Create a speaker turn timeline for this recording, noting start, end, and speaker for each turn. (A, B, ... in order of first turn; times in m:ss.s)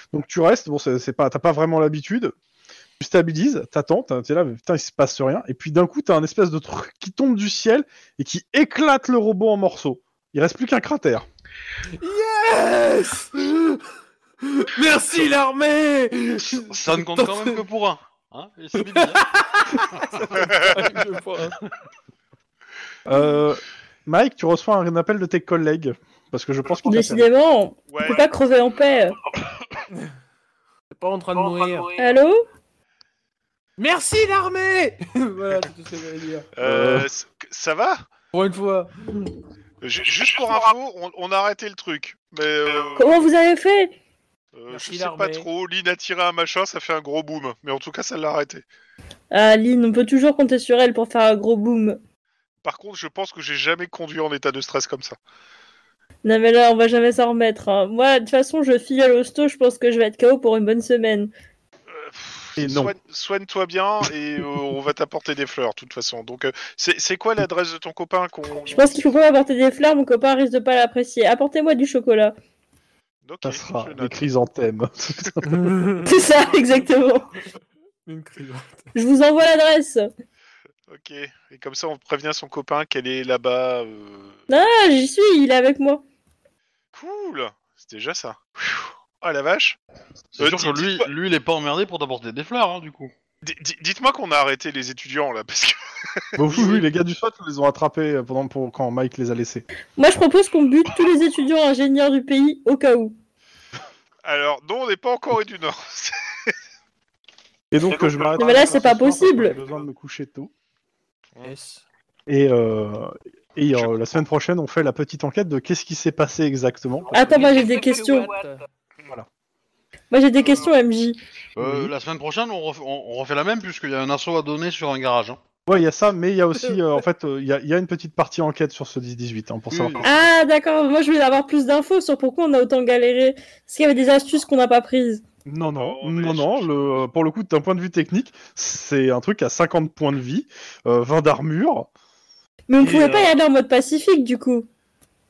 0:00.1-0:02.3 A
0:03.0-0:11.2 A
0:11.9-0:13.8 B
0:14.4-0:17.6 B
0:16.5-0:19.3 C
0:18.8-0:21.6 B
0:23.0-0:27.3 A
0:26.8-0:29.2 D
0:27.9-0:28.3 E
0:30.9-0:31.9 B
0:32.0-0:32.4 D
0:33.8-0:36.5 B
0:36.6-0:38.0 E
0:36.6-0:37.1 A
0:38.3-0:39.3 B
0:39.8-0:43.3 E
0:43.0-0:43.9 D
0:44.5-0:48.6 E
0:44.7-0:45.5 B
0:49.3-0:52.0 D
0:52.6-0:55.2 E
0:56.2-1:01.3 D
1:01.9-1:09.2 E
1:02.6-1:02.9 A
1:08.7-1:12.3 D
1:13.2-1:14.2 E
1:13.4-1:15.7 A
1:15.5-1:16.2 B
1:16.0-1:17.3 D
1:18.0-1:18.9 B
1:18.9-1:20.1 D
1:20.9-1:24.4 E
1:24.5-1:26.0 D
1:26.9-1:29.8 E
1:30.3-1:33.1 C
1:30.4-1:31.1 E
1:33.4-1:36.8 E
1:36.4-1:39.6 A
1:40.0-1:43.1 D
1:44.2-1:46.5 E
1:47.7-1:50.5 A
1:48.3-1:49.6 D
1:51.4-1:51.8 B
1:52.3-1:57.5 A
1:53.7-1:54.2 E
1:57.1-1:58.6 B
1:57.1-1:58.3 D
2:00.1-2:01.2 D
2:01.6-2:05.4 C
2:01.6-2:01.9 A
2:05.7-2:10.0 A
2:09.7-2:10.1 C
2:10.0-2:15.2 D
2:15.4-2:21.9 A
2:15.8-2:17.0 E
2:22.7-2:24.7 D
2:22.8-2:23.3 B